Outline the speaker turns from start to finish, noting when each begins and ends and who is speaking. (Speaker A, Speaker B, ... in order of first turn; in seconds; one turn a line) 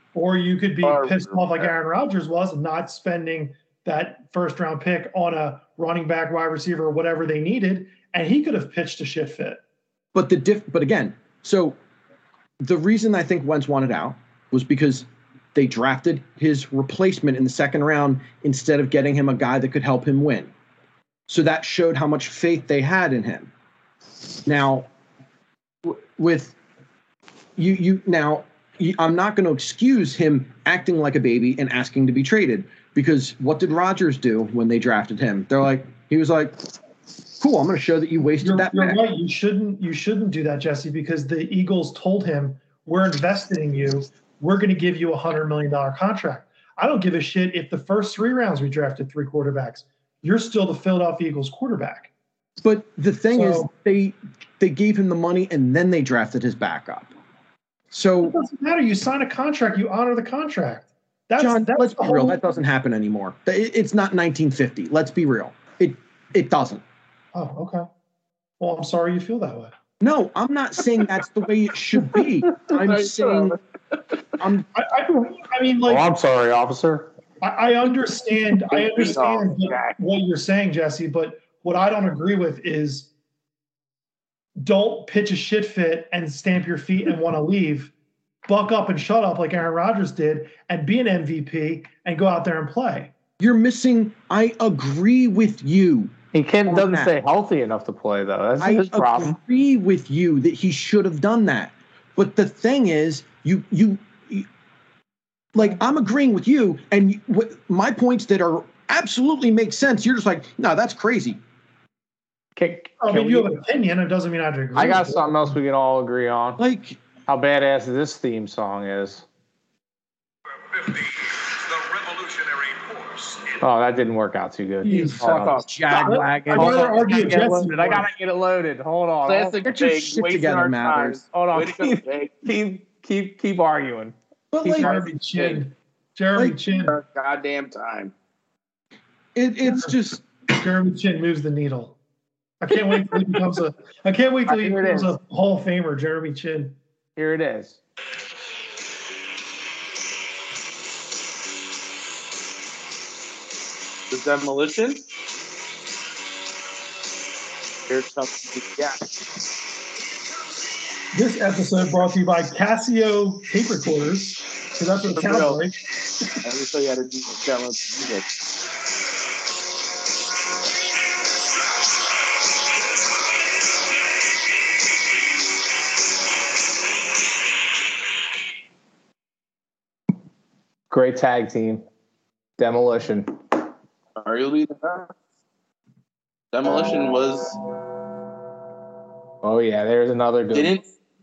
Speaker A: 0.1-9.6
Speaker B: 0.8-1.7
Speaker C: 10.2-11.8
Speaker C: 12.6-20.5
Speaker C: 21.3-23.5
Speaker C: 24.5-24.9
Speaker C: 25.9-26.6
Speaker C: 27.6-36.5
Speaker C: 37.4-39.0
Speaker A: 38.4-52.1
Speaker C: 52.6-57.1
Speaker A: 53.3-53.7
Speaker C: 57.9-58.4
Speaker A: 58.2-62.4
Speaker C: 61.4-66.8
Speaker A: 67.3-67.9
Speaker A: 68.6-69.7
Speaker C: 70.0-73.6
Speaker B: 72.8-73.6
Speaker C: 74.4-74.7
Speaker A: 74.7-76.1
Speaker D: 75.9-77.1
Speaker A: 77.4-83.1
Speaker B: 78.7-80.0
Speaker A: 84.6-87.9
Speaker A: 88.5-93.1
Speaker C: 93.4-96.2
Speaker D: 96.3-99.4
Speaker C: 96.7-97.1
Speaker C: 98.6-104.5
Speaker C: 105.5-111.4
Speaker D: 112.6-113.5
Speaker A: 113.0-115.6
Speaker D: 114.8-116.6
Speaker C: 116.6-117.0
Speaker D: 117.3-119.2
Speaker E: 120.8-123.1
Speaker D: 123.6-129.6
Speaker A: 124.8-128.1
Speaker B: 125.2-125.6
Speaker C: 125.3-127.3
Speaker B: 129.2-132.4
Speaker C: 129.6-131.2
Speaker D: 131.3-135.1
Speaker C: 134.5-134.9
Speaker A: 134.7-136.9
Speaker B: 135.3-135.6
Speaker B: 136.9-138.1
Speaker C: 139.4-140.2
Speaker A: 139.7-139.9
Speaker A: 140.5-142.0
Speaker A: 142.6-146.8
Speaker D: 144.5-145.1
Speaker D: 147.2-147.8
Speaker B: 154.1-155.0
Speaker B: 157.9-159.0
Speaker A: 161.1-165.8
Speaker B: 165.1-165.6
Speaker B: 166.4-168.3
Speaker D: 180.9-181.8
Speaker D: 182.6-183.3
Speaker B: 184.2-185.1
Speaker B: 186.5-187.6
Speaker D: 189.4-190.7
Speaker B: 190.5-190.9